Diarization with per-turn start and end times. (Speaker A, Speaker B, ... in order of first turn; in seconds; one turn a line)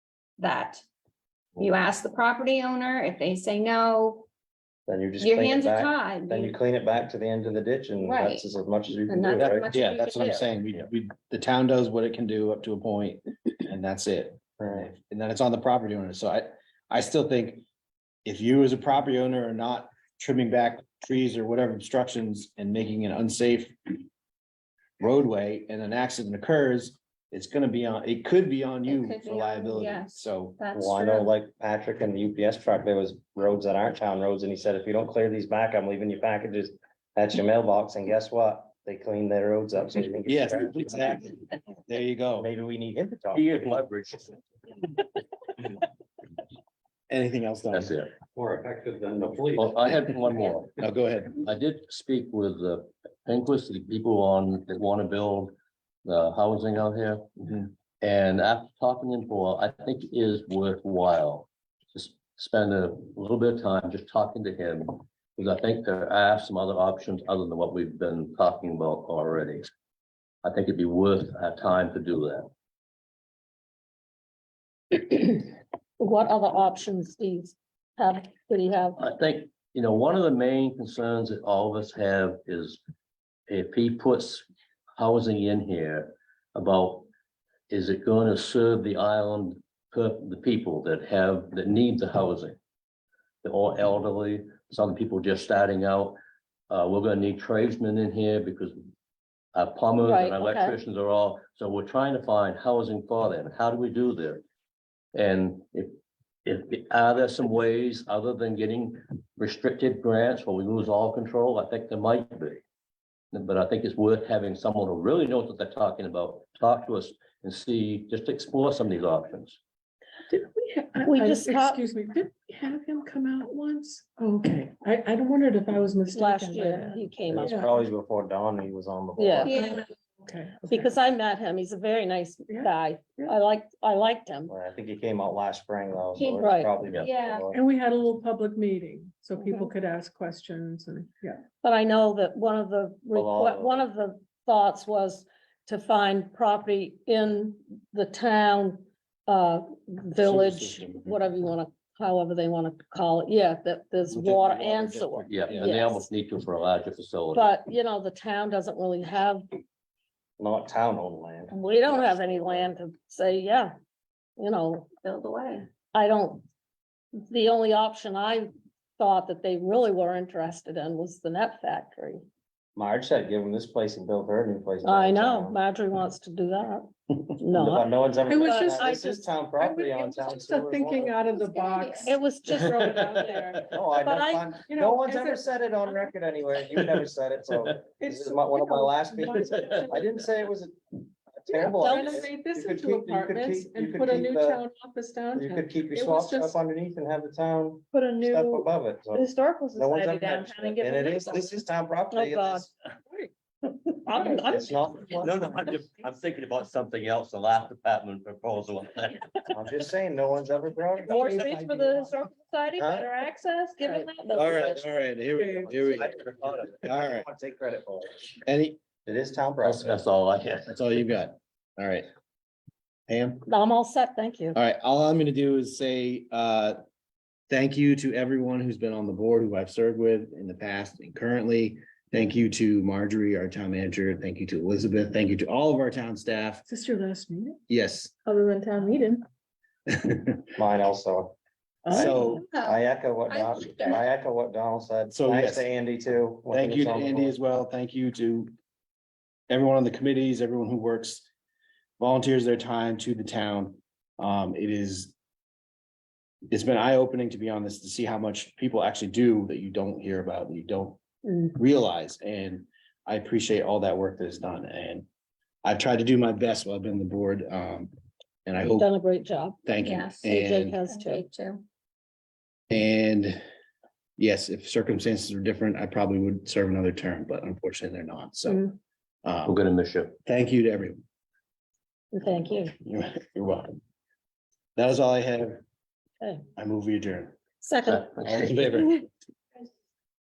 Speaker A: 0.4-0.8
Speaker A: 1.6-4.2
Speaker B: 4.9-9.7
Speaker A: 5.2-6.5
Speaker A: 8.0-8.4
Speaker A: 9.1-10.5
Speaker C: 9.3-17.6
Speaker B: 14.6-14.9
Speaker C: 18.2-24.0
Speaker C: 25.0-30.6
Speaker A: 28.9-31.3
Speaker B: 30.7-41.2
Speaker C: 40.3-42.5
Speaker B: 42.4-43.5
Speaker D: 43.3-44.4
Speaker C: 47.1-47.9
Speaker D: 47.7-48.2
Speaker B: 48.3-50.1
Speaker D: 49.5-50.8
Speaker C: 50.8-51.3
Speaker D: 51.3-69.7
Speaker D: 70.4-72.5
Speaker E: 74.9-79.0
Speaker D: 79.0-82.8
Speaker D: 83.5-87.1
Speaker D: 87.7-92.6
Speaker D: 93.4-98.8
Speaker D: 99.5-104.4
Speaker E: 100.0-100.8
Speaker D: 105.1-112.6
Speaker D: 113.3-119.6
Speaker F: 120.3-127.7
Speaker E: 121.0-121.8
Speaker E: 126.1-127.6
Speaker B: 127.3-129.7
Speaker E: 129.2-129.6
Speaker A: 129.4-129.8
Speaker F: 129.5-130.9
Speaker E: 130.7-134.5
Speaker F: 132.5-133.3
Speaker B: 134.5-137.6
Speaker A: 136.2-136.5
Speaker E: 136.4-136.7
Speaker D: 136.8-137.2
Speaker A: 137.0-137.4
Speaker F: 137.5-141.4
Speaker E: 139.4-139.7
Speaker E: 141.6-156.1
Speaker B: 143.1-143.9
Speaker C: 150.2-151.2
Speaker C: 154.1-155.7
Speaker D: 155.2-157.5
Speaker E: 157.3-159.5
Speaker B: 160.4-162.7
Speaker E: 161.5-163.7
Speaker E: 164.4-164.9
Speaker A: 165.0-165.7
Speaker E: 165.9-166.4
Speaker E: 167.2-172.2
Speaker B: 172.8-175.6
Speaker E: 174.8-177.9
Speaker B: 177.5-181.4
Speaker F: 178.3-183.6
Speaker E: 178.4-179.2
Speaker A: 181.4-182.1
Speaker E: 182.0-184.5
Speaker D: 183.1-183.6
Speaker B: 183.7-194.6
Speaker F: 184.7-186.2
Speaker F: 187.9-190.3
Speaker F: 191.5-196.6
Speaker E: 191.7-192.2
Speaker B: 195.3-202.7
Speaker F: 198.0-198.6
Speaker E: 199.1-201.5
Speaker E: 202.1-202.7
Speaker E: 204.0-205.5
Speaker B: 204.4-205.5
Speaker D: 205.2-209.2
Speaker B: 209.5-212.1
Speaker E: 211.1-214.8
Speaker B: 212.8-213.1
Speaker B: 214.4-214.7
Speaker C: 214.4-216.2
Speaker F: 215.4-215.8
Speaker B: 215.4-218.2
Speaker C: 216.8-217.2
Speaker C: 218.4-218.8
Speaker B: 219.0-220.0
Speaker D: 219.6-220.8
Speaker C: 220.7-222.1
Speaker C: 223.1-223.5
Speaker E: 223.5-224.6
Speaker C: 224.5-226.8
Speaker C: 227.5-236.7
Speaker F: 236.7-237.6
Speaker C: 237.7-238.1
Speaker F: 238.2-239.2
Speaker C: 239.9-240.5
Speaker B: 240.6-241.3
Speaker F: 241.8-242.2
Speaker B: 241.9-247.3
Speaker C: 241.9-242.5
Speaker A: 242.5-244.0
Speaker C: 245.1-245.7
Speaker C: 246.5-248.5
Speaker C: 249.5-251.3
Speaker C: 252.0-255.1
Speaker C: 256.5-261.0
Speaker C: 261.6-265.1
Speaker C: 265.6-267.9
Speaker C: 268.4-268.9
Speaker E: 268.6-269.6
Speaker C: 269.6-270.8
Speaker A: 269.8-270.2
Speaker E: 270.2-271.2
Speaker A: 270.9-271.6
Speaker C: 272.7-273.4
Speaker C: 274.2-278.7
Speaker C: 279.2-279.6
Speaker D: 279.4-280.2
Speaker C: 280.2-281.0
Speaker E: 282.1-282.7
Speaker C: 282.8-283.8
Speaker C: 284.8-285.6
Speaker C: 286.6-287.4
Speaker E: 287.6-288.1
Speaker D: 288.0-288.7
Speaker C: 288.2-289.0